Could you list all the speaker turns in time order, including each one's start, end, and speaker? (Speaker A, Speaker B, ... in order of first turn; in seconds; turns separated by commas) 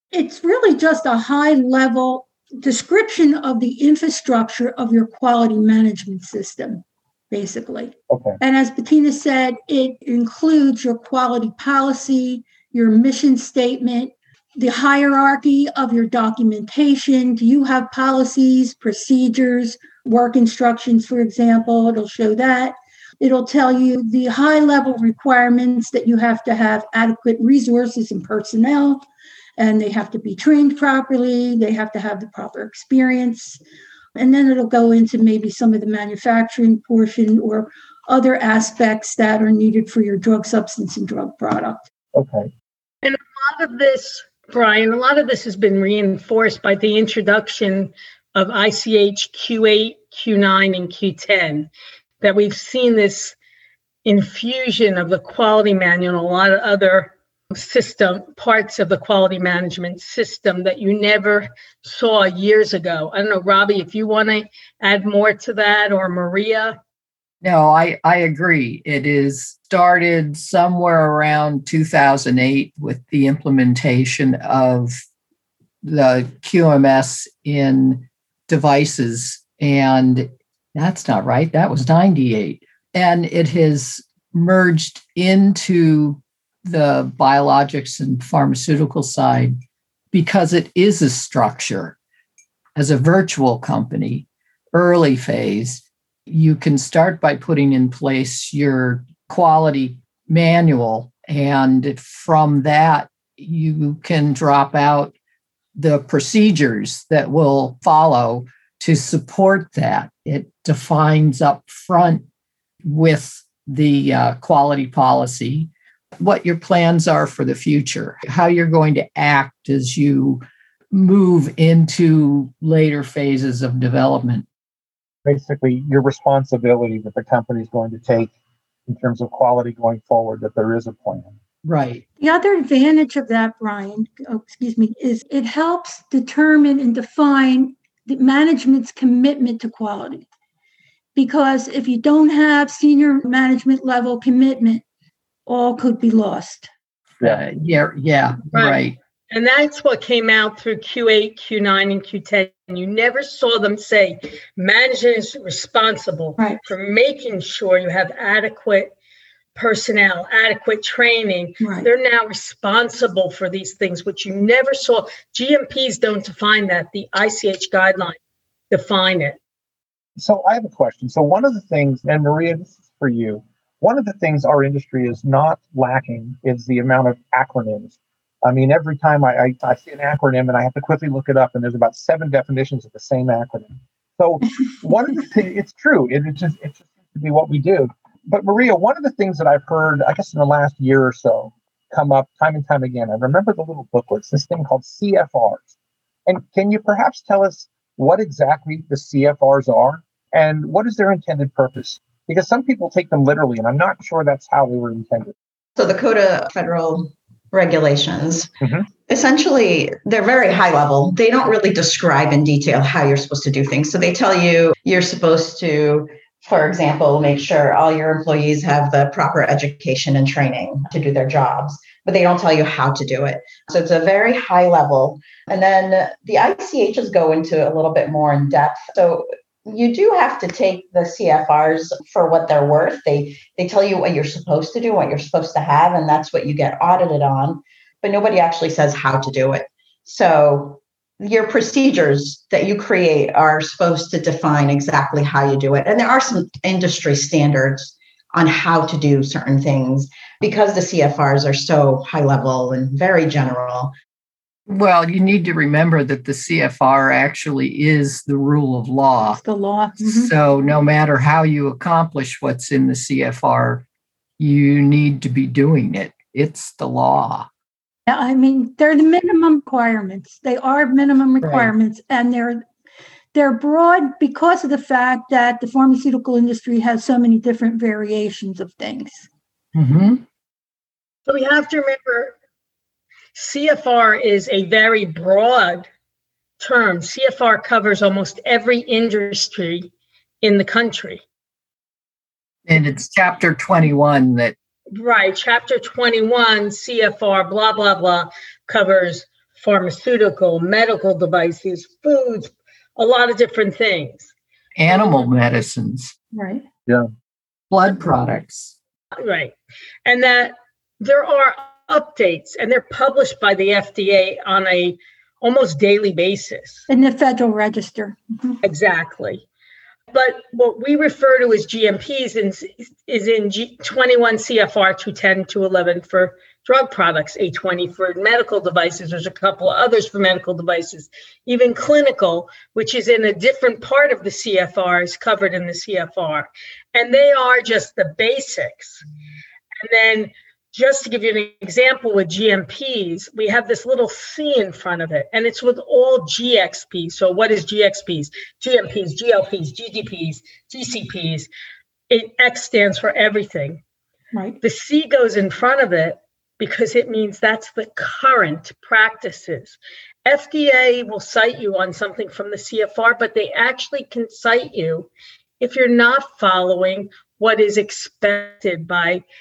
Speaker A: 0.1-29.0, Speaker B: 8.1-8.4, Speaker A: 29.6-33.6, Speaker A: 34.2-41.9, Speaker B: 42.1-42.5, Speaker C: 43.0-51.7, Speaker C: 52.2-53.4, Speaker C: 54.0-66.8, Speaker D: 67.4-75.0, Speaker D: 75.8-89.6, Speaker D: 90.1-92.0, Speaker D: 92.8-105.1, Speaker D: 105.8-112.2, Speaker D: 112.8-124.5, Speaker B: 125.2-128.3, Speaker B: 128.9-131.3, Speaker D: 131.6-132.0, Speaker A: 132.2-140.2, Speaker A: 141.2-144.8, Speaker A: 145.5-146.7, Speaker D: 147.2-149.0, Speaker C: 148.5-158.9, Speaker C: 159.6-168.2, Speaker A: 161.6-161.9, Speaker C: 168.7-169.4, Speaker B: 170.2-195.7, Speaker B: 196.3-205.3, Speaker E: 205.8-208.5, Speaker B: 208.6-208.9, Speaker E: 209.1-253.9, Speaker D: 254.7-259.4, Speaker A: 259.4-260.3, Speaker D: 260.0-263.9, Speaker D: 264.4-267.5, Speaker A: 268.1-272.6, Speaker D: 271.4-271.7, Speaker A: 273.3-279.3, Speaker D: 279.8-280.2, Speaker C: 281.3-282.4, Speaker C: 283.4-285.9, Speaker C: 286.6-289.9, Speaker C: 290.4-291.2, Speaker D: 292.7-294.6, Speaker C: 294.9-304.3, Speaker D: 304.8-306.1, Speaker A: 306.3-306.6, Speaker D: 307.7-308.8, Speaker C: 309.2-316.9, Speaker A: 316.9-318.6, Speaker C: 318.6-319.4, Speaker C: 320.1-339.1, Speaker C: 339.8-351.5, Speaker C: 352.1-353.8, Speaker A: 354.3-354.6, Speaker C: 354.6-365.1, Speaker C: 365.6-369.2